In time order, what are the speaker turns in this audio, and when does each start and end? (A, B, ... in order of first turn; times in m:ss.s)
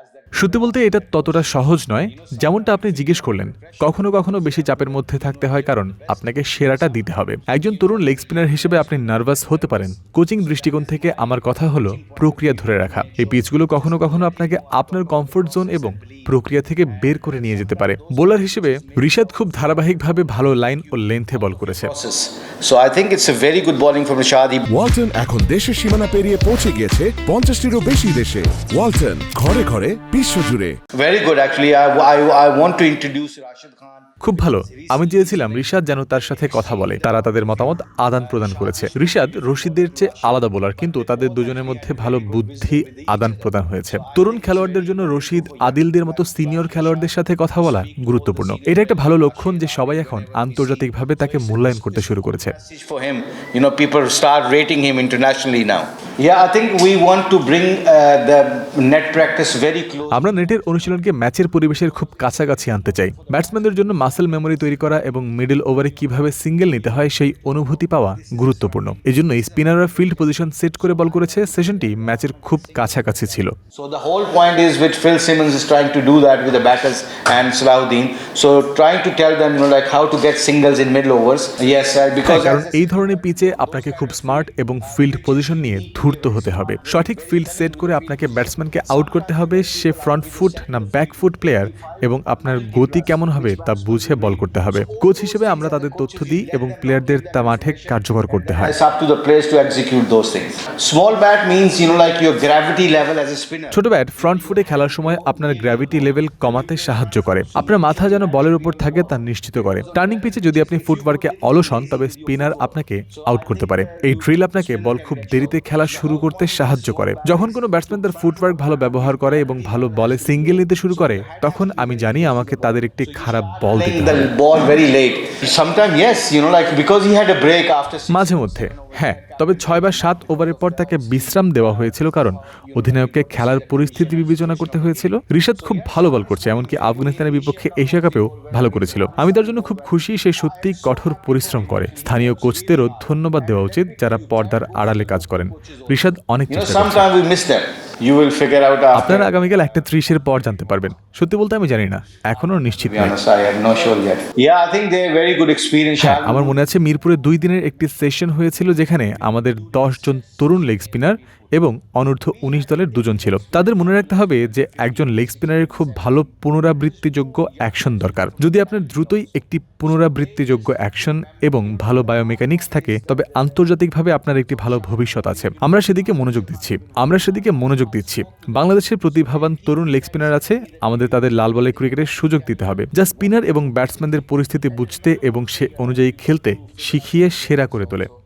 0:00.4-0:21.9 A
0:21.8-0:24.7 B
0:24.7-0:30.8 C
0:31.0-0:33.9 B
0:34.2-0:52.5 A
0:52.6-1:00.2 B
1:00.1-1:13.5 A
1:13.7-1:22.6 B
1:22.2-1:38.7 A
1:35.2-1:35.7 B
1:38.6-1:43.8 B
1:43.7-2:04.3 A
2:03.7-2:08.3 B
2:08.1-2:27.0 A
2:26.5-2:29.3 B
2:28.9-2:33.1 A
2:32.8-2:36.5 B
2:36.0-3:08.1 A